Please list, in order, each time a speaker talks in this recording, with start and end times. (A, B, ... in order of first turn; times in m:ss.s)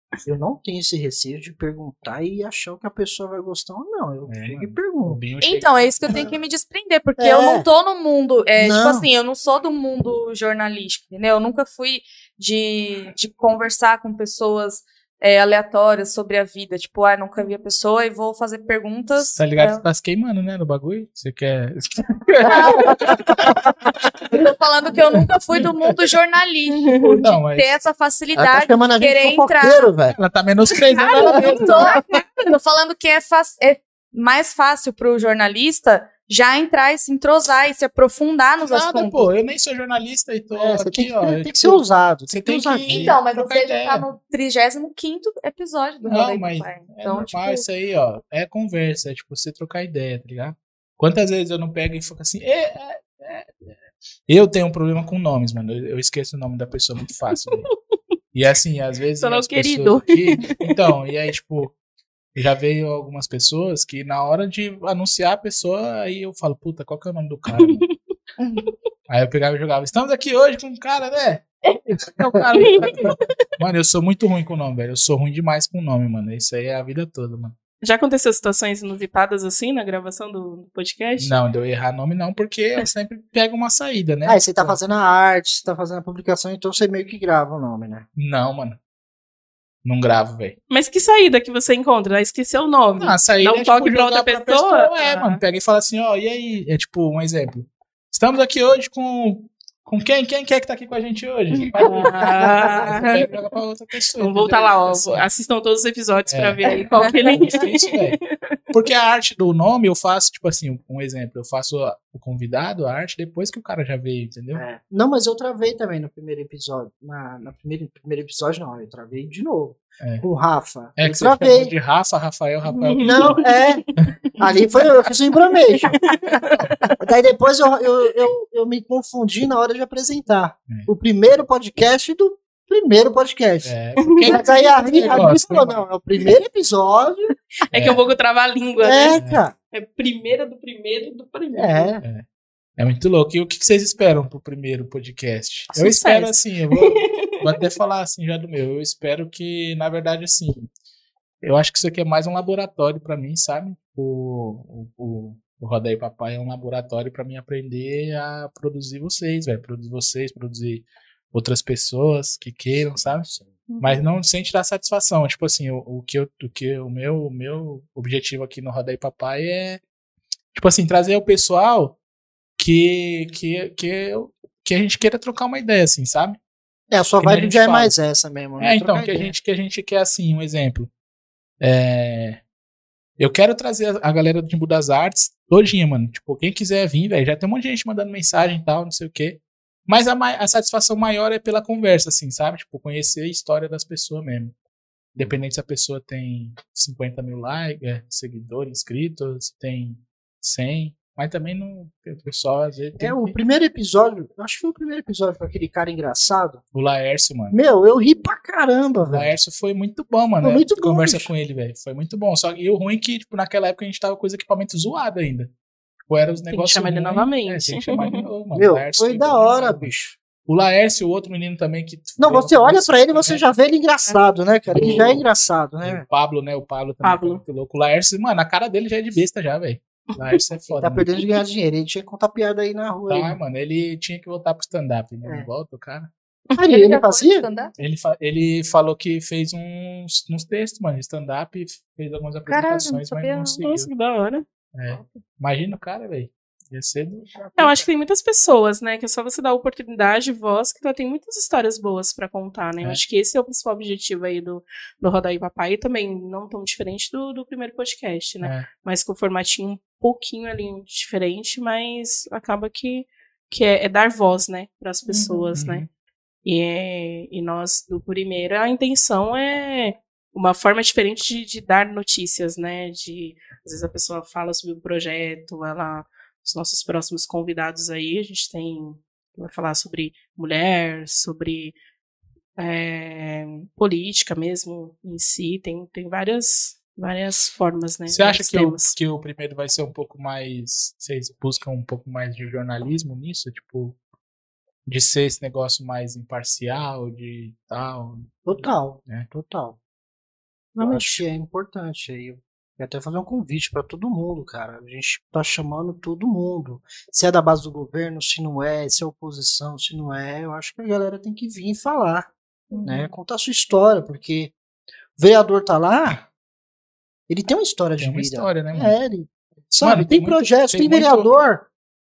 0:00.2-0:05.2 A
0:04.3-0:06.3 B
0:05.4-0:19.8 C
0:07.2-0:07.7 A
0:08.6-0:09.1 A
0:19.3-0:23.7 B
0:22.4-0:23.4 C
0:24.3-0:29.9 C
0:26.7-0:27.2 D
0:27.2-0:27.7 B
0:28.3-0:30.2 A
0:30.1-0:31.8 B
0:31.1-0:39.3 C
0:31.2-0:32.0 A
0:31.2-0:32.0 D
0:38.6-0:44.1 B
0:40.5-0:43.2 A
0:42.9-0:47.6 C
0:46.0-0:53.8 B
0:54.3-0:57.7 B
0:58.3-1:01.8 B
0:59.2-1:00.7 D
1:02.4-1:07.8 B
1:07.6-1:07.9 D
1:08.4-1:08.6 C
1:09.1-1:11.5 B
1:12.0-1:17.6 B
1:12.7-1:13.2 D
1:17.8-1:21.4 D
1:21.2-1:24.8 B
1:24.2-1:28.1 A
1:28.2-1:28.8 B
1:29.8-1:30.6 B
1:30.7-1:35.4 D
1:33.0-1:45.3 B
1:41.8-1:43.3 D
1:44.2-1:48.6 D
1:46.3-1:48.2 B
1:46.9-1:47.3 C
1:48.7-1:54.6 B
1:54.6-2:01.8 A
2:01.0-2:03.4 B
2:02.7-2:03.9 D
2:03.0-2:03.8 A
2:04.4-2:06.0 A
2:05.9-2:06.7 D
2:07.0-2:17.3 A
2:13.6-2:15.9 B
2:14.1-2:15.2 D
2:17.7-2:19.2 D
2:17.7-2:18.0 B
2:18.8-2:19.5 A
2:19.2-2:19.4 B
2:19.7-2:22.0 D
2:21.5-2:22.0 A
2:22.8-2:30.7 B
2:25.7-2:27.5 D
2:31.4-2:49.8 B
2:43.1-2:43.6 A
2:43.7-2:44.0 D
2:50.5-2:52.0 B
2:52.6-2:56.4 B
2:56.9-2:59.4 A
2:57.2-2:58.0 B
2:58.6-3:00.9 B
3:01.6-3:02.4 B
3:03.2-3:14.5 B
3:15.2-3:23.4 B
3:23.0-3:26.6 A
3:26.7-3:27.6 B
3:27.5-3:29.3 A
3:29.0-3:35.5 B
3:30.4-3:31.3 A
3:36.1-3:39.9 B
3:36.5-3:38.2 D
3:38.5-3:40.2 A
3:40.4-3:43.4 B
3:42.2-3:46.0 A
3:44.7-3:45.3 B
3:45.8-3:51.1 B
3:47.0-3:47.4 D
3:50.1-3:50.4 D
3:50.8-3:53.4 A
3:53.1-3:56.1 B
3:56.6-3:57.5 A
3:56.6-3:57.7 C
3:57.8-4:03.9 B
4:02.5-4:03.6 C
4:03.6-4:04.4 D
4:04.7-4:07.3 B
4:07.6-4:25.8 D
4:18.4-4:18.7 B
4:25.1-4:25.5 C
4:25.5-4:25.9 B
4:26.4-4:41.8 D
4:42.6-4:49.0 D
4:48.1-4:54.0 B
4:54.9-4:59.3 B
4:58.4-4:59.8 A
5:00.8-5:01.1 D
5:00.8-5:12.3 A
5:12.7-5:13.1 C
5:12.8-5:14.5 A
5:15.2-5:16.3 A
5:17.3-5:21.7 A
5:18.0-5:19.0 B
5:19.8-5:21.3 B